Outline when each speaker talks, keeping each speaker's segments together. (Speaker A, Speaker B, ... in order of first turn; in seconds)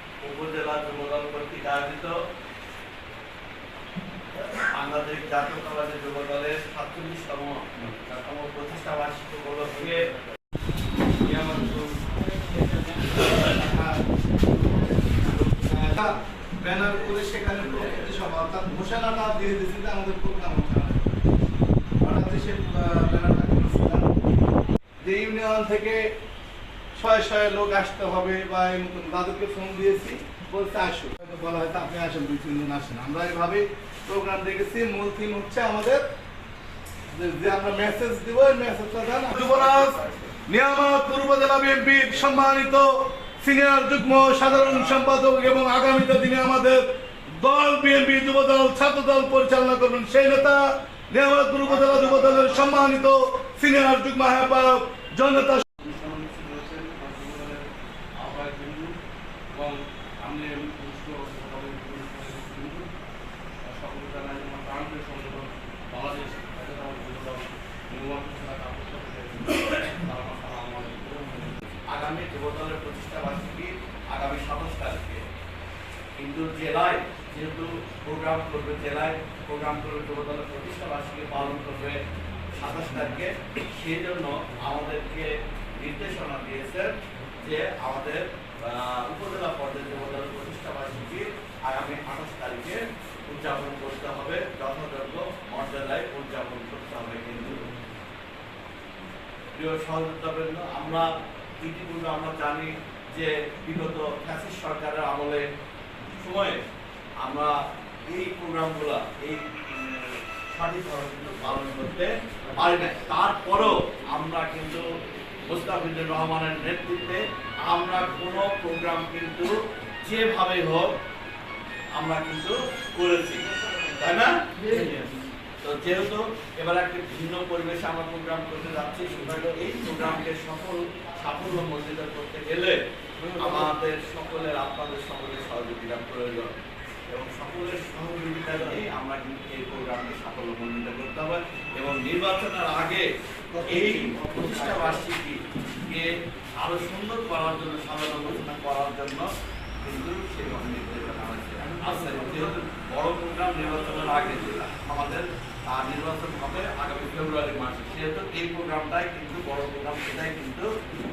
Speaker A: 0.2-2.1, 4.3-10.1, 39.4-40.3, 51.7-52.8, 70.0-71.0, 71.9-75.2, 76.2-82.0, 82.6-97.7, 99.5-101.1, 101.6-105.5, 106.1-106.6, 107.2-107.5, 108.1-114.9, 115.5-121.0, 122.0-125.0, 125.6-132.8, 133.4-136.5, 137.1-143.1, 143.6-149.3, 149.8-160.7
Speaker B: 11.3-11.9, 12.9-14.0, 14.5-21.1, 22.0-24.1, 25.0-26.0, 27.0-36.0, 37.1-46.8, 47.4-55.7, 143.6-144.9
Speaker C: 55.8-57.6, 58.2-58.9, 59.5-62.9, 63.7-69.5, 71.1-71.4